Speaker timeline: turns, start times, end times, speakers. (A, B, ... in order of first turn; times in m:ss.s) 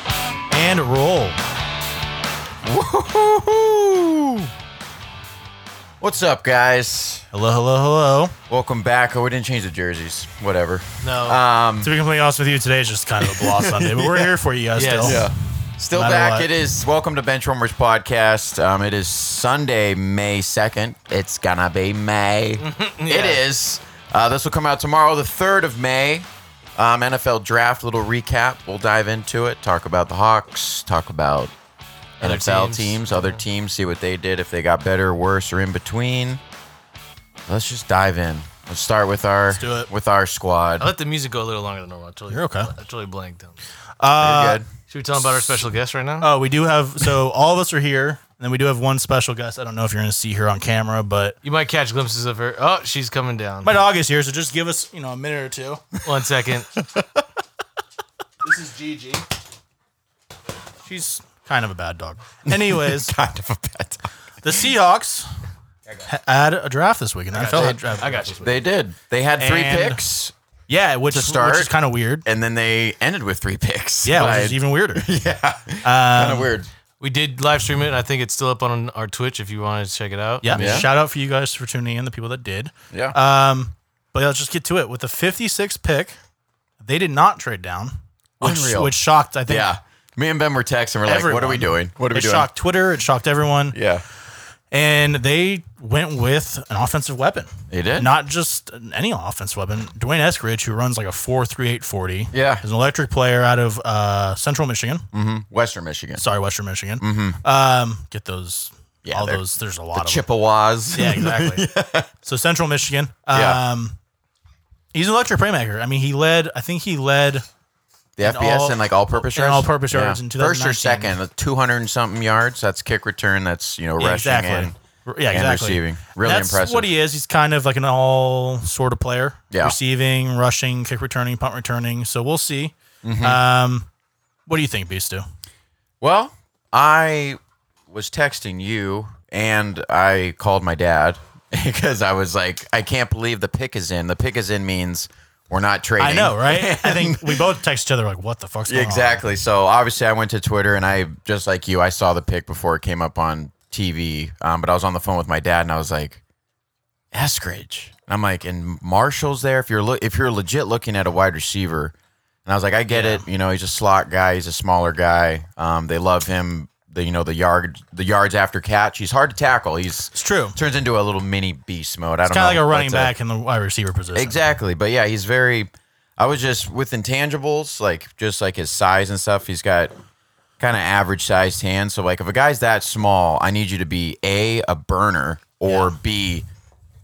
0:00.5-0:01.4 A
0:02.6-0:04.5 B
0:06.0-0:07.3 B
0:07.3-0:08.4 A
0:08.5-0:11.9 B
0:11.0-0:11.4 C
0:11.8-0:15.3 A
0:13.2-0:14.3 B
0:14.8-0:15.3 C
0:15.0-0:31.5 B
0:15.9-0:16.5 A
0:22.6-0:23.4 C
0:32.2-0:33.4 C
0:32.2-0:36.4 B
0:37.5-0:40.9 B
0:39.5-0:39.9 A
0:40.8-0:43.6 C
0:42.3-0:42.7 A
0:44.0-0:44.6 A
0:44.2-0:44.7 B
0:44.9-0:46.3 C
0:46.2-0:51.4 A
0:51.4-0:53.8 C
0:53.6-0:55.8 A
0:56.0-0:56.8 C
0:56.8-0:57.2 B
0:58.4-0:59.2 A
1:00.8-1:03.2 A
1:02.4-1:04.1 B
1:04.4-1:05.3 A
1:06.0-1:08.6 A
1:07.3-1:08.6 C
1:07.5-1:07.8 B
1:08.4-1:10.3 B
1:09.4-1:10.0 A
1:10.7-1:12.3 A
1:11.1-1:11.7 B
1:12.2-1:16.7 B
1:14.0-1:15.1 A
1:15.8-1:16.5 A
1:17.0-1:20.9 C
1:20.4-1:26.2 A
1:20.5-1:20.9 B
1:22.9-1:23.2 B
1:26.8-1:29.7 A
1:28.4-1:28.9 B
1:29.5-1:32.5 B
1:31.0-1:33.8 A
1:33.7-1:34.0 B
1:34.7-1:45.1 A
1:37.7-1:38.1 B
1:42.3-1:42.6 B
1:45.1-1:46.2 B
1:46.2-1:50.3 A
1:47.0-1:47.4 B
1:49.0-1:49.4 B
1:49.9-1:52.1 B
1:50.9-1:51.7 A
1:52.2-1:54.0 A
1:53.3-1:53.6 B
1:54.9-1:57.4 A
1:58.2-2:04.8 B
1:58.2-2:01.2 A
2:04.0-2:13.9 A
2:05.3-2:06.9 B
2:09.5-2:09.8 B
2:13.0-2:13.4 B
2:14.5-2:15.2 A
2:16.0-2:27.4 B
2:26.0-2:29.2 A
2:28.7-2:36.2 B
2:37.1-2:41.9 B
2:42.5-2:53.1 B
2:42.9-2:43.2 A
2:50.1-2:50.6 A
2:52.3-2:54.4 A
2:54.2-2:59.9 B
3:00.6-3:06.5 B
3:05.7-3:06.0 A